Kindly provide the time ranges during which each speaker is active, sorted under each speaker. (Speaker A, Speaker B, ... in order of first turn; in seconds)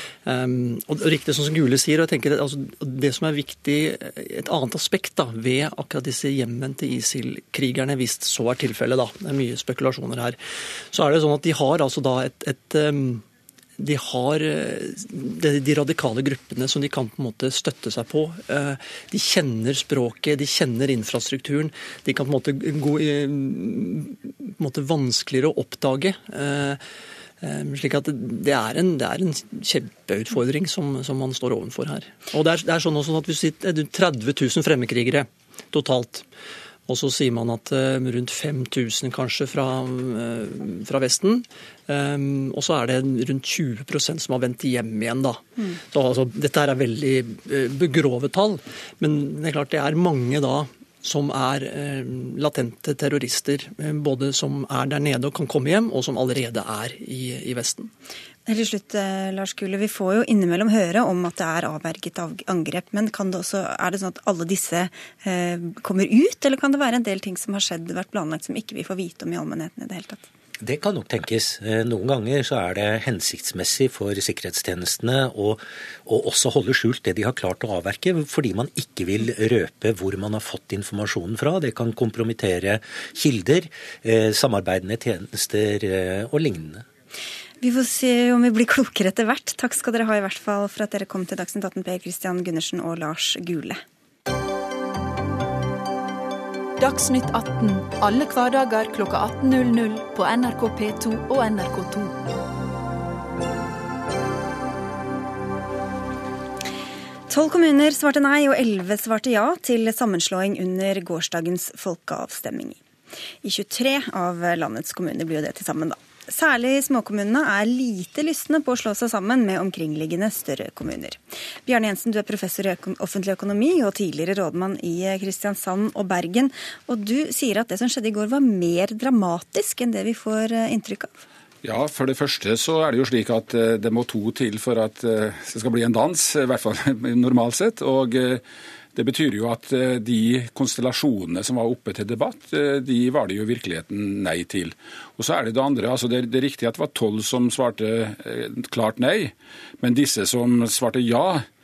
Speaker A: 0.2-10.4, 10.9-13.2, 13.8-26.8, 27.4-36.2, 36.9-57.9
Speaker B: 58.5-70.2, 87.6-93.8, 107.3-112.8, 113.4-131.2
Speaker C: 70.6-86.9
Speaker D: 96.8-102.2
Speaker E: 131.6-138.4, 138.9-151.4